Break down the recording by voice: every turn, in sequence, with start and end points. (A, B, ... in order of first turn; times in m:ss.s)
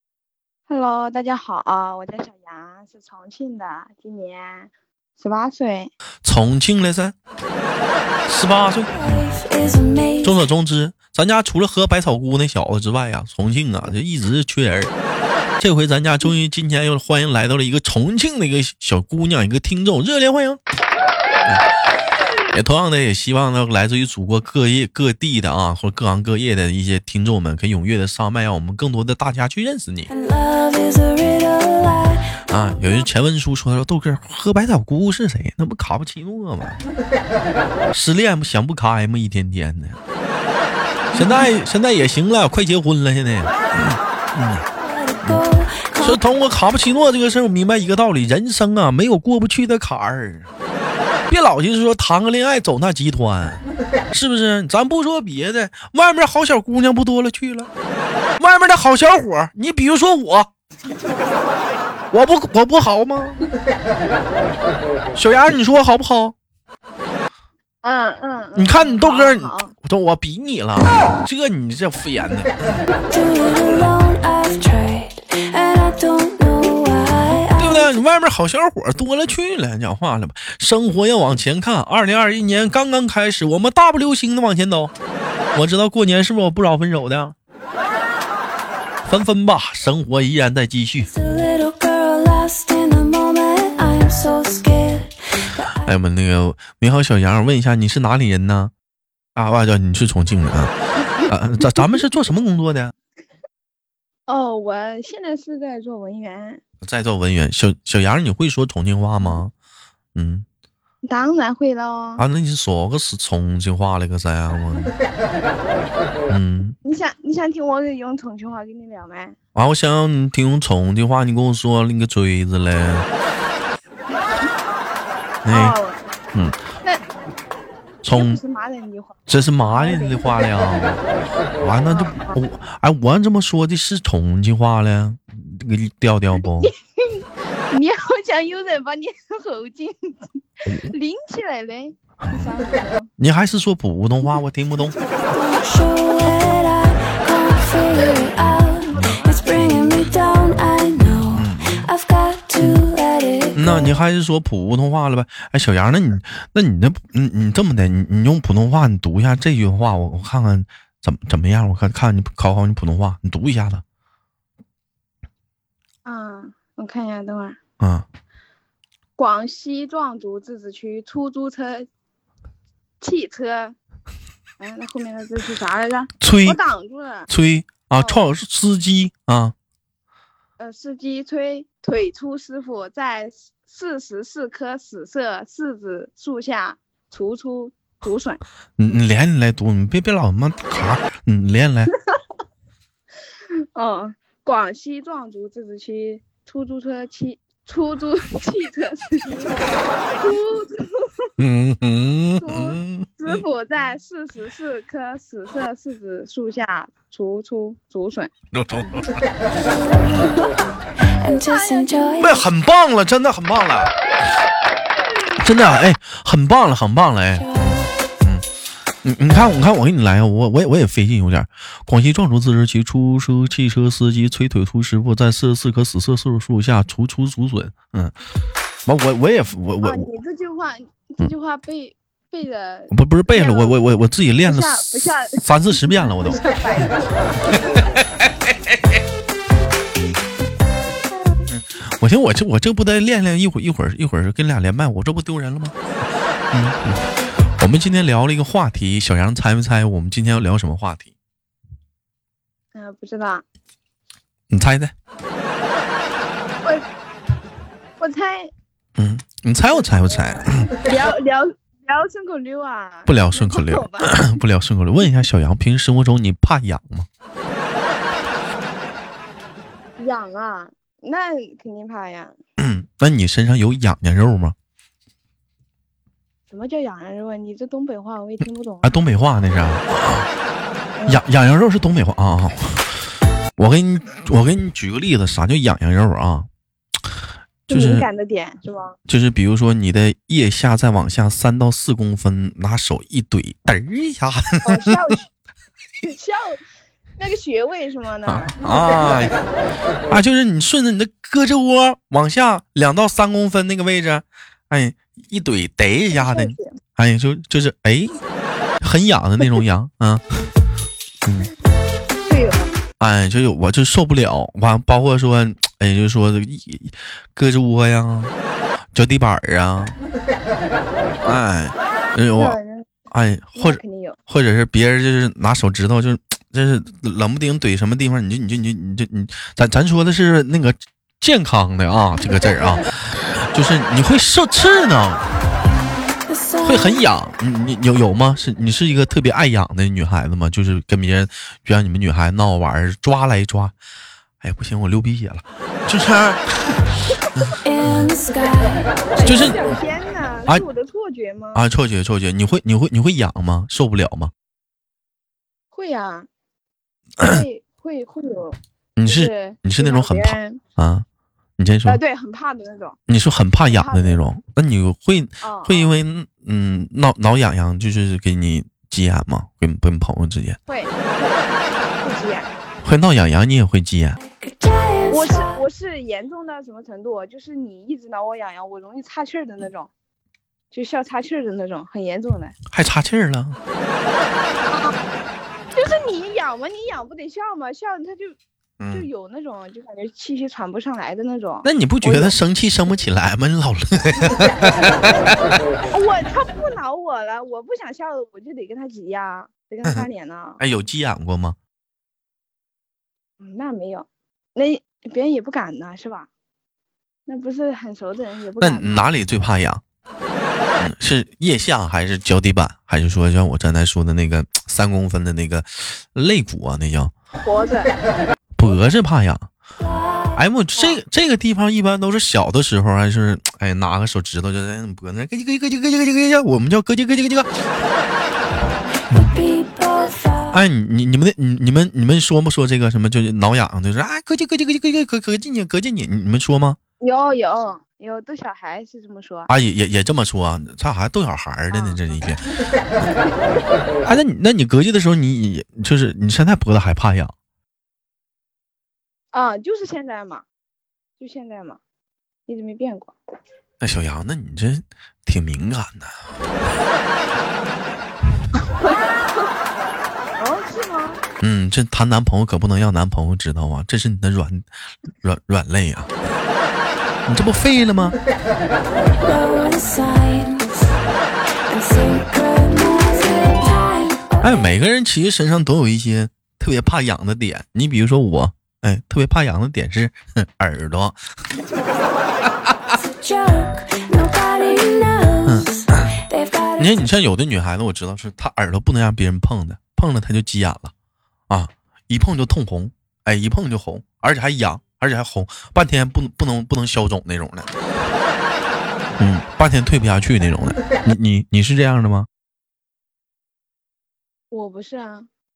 0:00.7-0:05.9 A
0:06.2-0:07.2 B
0:08.3-0:09.2 B
0:09.3-0:10.2 C
0:10.2-0:14.9 B
0:15.6-0:20.6 B
0:22.5-0:30.1 B
0:30.1-0:32.2 C
0:32.5-0:36.8 B
0:37.9-0:40.0 B
0:41.1-0:44.6 B
0:45.2-0:50.5 B
0:51.3-0:57.7 B
0:58.4-1:00.5 B
1:02.1-1:03.4 B
1:05.2-1:06.4 B
1:07.8-1:09.7 A
1:08.5-1:12.5 B
1:13.1-1:17.7 C
1:17.6-1:24.9 B
1:25.5-1:27.4 B
1:29.0-1:31.1 B
1:31.2-1:35.1 C
1:35.8-1:38.7 B
1:39.4-1:40.7 B
1:41.2-1:42.9 B
1:44.3-1:46.6 A
1:46.8-1:49.5 B
1:50.1-1:50.4 B
1:51.0-1:52.2 A
1:52.2-1:54.9 B
1:56.3-1:56.8 B
1:56.8-1:59.4 A
1:59.5-2:03.1 B
2:05.4-2:05.8 B
2:05.5-2:06.2 A
2:06.3-2:06.6 B
2:08.0-2:10.2 A
2:08.0-2:08.4 B
2:09.3-2:11.0 B
2:11.6-2:16.7 B
2:11.9-2:12.4 A
2:16.6-2:23.1 A
2:23.2-2:25.0 B
2:25.4-2:28.8 C
2:28.0-2:29.8 A
2:29.4-2:33.6 C
2:31.3-2:31.9 B
2:33.6-2:43.8 B
2:46.0-2:47.6 A
2:47.8-2:48.0 B
2:49.2-2:51.9 A
2:53.0-2:53.8 A
2:54.6-2:57.3 A
2:56.2-2:56.6 B
2:57.3-2:59.5 B
2:58.0-2:58.3 A
3:00.6-3:08.4 A
3:08.8-3:11.9 B
3:13.7-3:19.5 A
3:20.2-3:21.3 A
3:21.4-3:23.4 B
3:22.4-3:28.3 A
3:28.5-3:29.0 B
3:30.0-3:30.6 A
3:31.2-3:32.1 C
3:31.4-3:32.2 A
3:32.1-3:33.9 B
3:35.4-3:37.6 B
3:39.0-3:48.1 B
3:48.8-3:50.1 B
3:49.8-3:53.8 A
3:52.9-3:56.4 B
3:54.4-3:57.8 A
4:01.1-4:01.4 A
4:01.5-4:05.7 B
4:06.5-4:06.9 B
4:07.6-4:11.1 B
4:12.7-4:13.4 A
4:14.5-4:14.9 B
4:18.0-4:18.5 A
4:19.0-4:20.7 B
4:19.8-4:20.0 A
4:20.8-4:24.4 A
4:23.0-4:27.1 B
4:30.0-4:32.4 A
4:32.6-4:34.5 B
4:36.5-4:39.0 A
4:38.8-4:40.3 B
4:41.0-4:41.2 A
4:41.1-4:42.9 B
4:43.6-4:46.5 B
4:47.7-4:49.0 A
4:47.7-4:48.1 B
4:49.1-4:54.9 B
4:54.6-4:55.2 A
4:56.0-4:56.6 A
4:57.2-4:59.5 A
4:58.2-4:59.3 B
5:00.1-5:08.1 B
5:06.1-5:06.8 A
5:08.8-5:10.2 B
5:11.2-5:11.5 B
5:12.2-5:12.7 A
5:13.0-5:18.3 B
5:18.9-5:20.0 B
5:21.2-5:22.6 B
5:22.4-5:22.9 A
5:23.1-5:35.3 B
5:23.6-5:24.2 A
5:36.6-5:43.7 B
5:44.4-5:46.7 B
5:47.3-5:48.1 B
5:47.6-5:48.9 C
5:49.0-5:51.6 A
5:49.2-5:49.7 B
5:51.5-5:54.3 B
5:55.7-5:56.3 A
5:57.2-6:00.6 A
5:59.0-6:01.0 B
6:01.6-6:02.0 B
6:01.8-6:03.0 A
6:03.1-6:10.6 B
6:03.7-6:04.2 A
6:05.4-6:05.9 A
6:10.7-6:12.5 A
6:12.8-6:14.2 B
6:14.4-6:15.3 C
6:15.1-6:19.9 A
6:20.7-6:22.6 A
6:22.7-6:23.6 B
6:24.6-6:24.9 A
6:25.7-6:28.4 A
6:28.8-6:29.1 B
6:28.9-6:32.4 A
6:31.6-6:34.7 B
6:34.4-6:34.9 A
6:35.9-6:40.6 A
6:40.6-6:41.6 B
6:43.4-6:46.3 A
6:47.2-6:49.1 A
6:48.6-6:49.8 B
6:50.8-6:57.1 B
6:57.4-6:57.9 A
6:58.6-6:59.5 B
7:00.3-7:07.5 B
7:09.3-7:10.5 C
7:10.5-7:16.8 B
7:17.0-7:19.5 A
7:19.5-7:22.4 B
7:21.7-7:22.0 A
7:24.0-7:27.3 B
7:29.3-7:30.4 A
7:31.2-7:31.8 A
7:32.5-7:33.2 A
7:33.8-7:36.1 B
7:40.4-7:41.2 A
7:41.4-7:44.7 B
7:45.2-7:46.1 B
7:47.3-7:48.2 B
7:49.2-7:50.7 C
7:51.7-7:54.4 C
7:54.4-8:01.2 B
8:03.2-8:05.5 C
8:05.4-8:06.1 B
8:06.4-8:06.7 C
8:06.8-8:10.9 B
8:11.5-8:17.7 B
8:19.2-8:22.3 B
8:24.5-8:25.3 A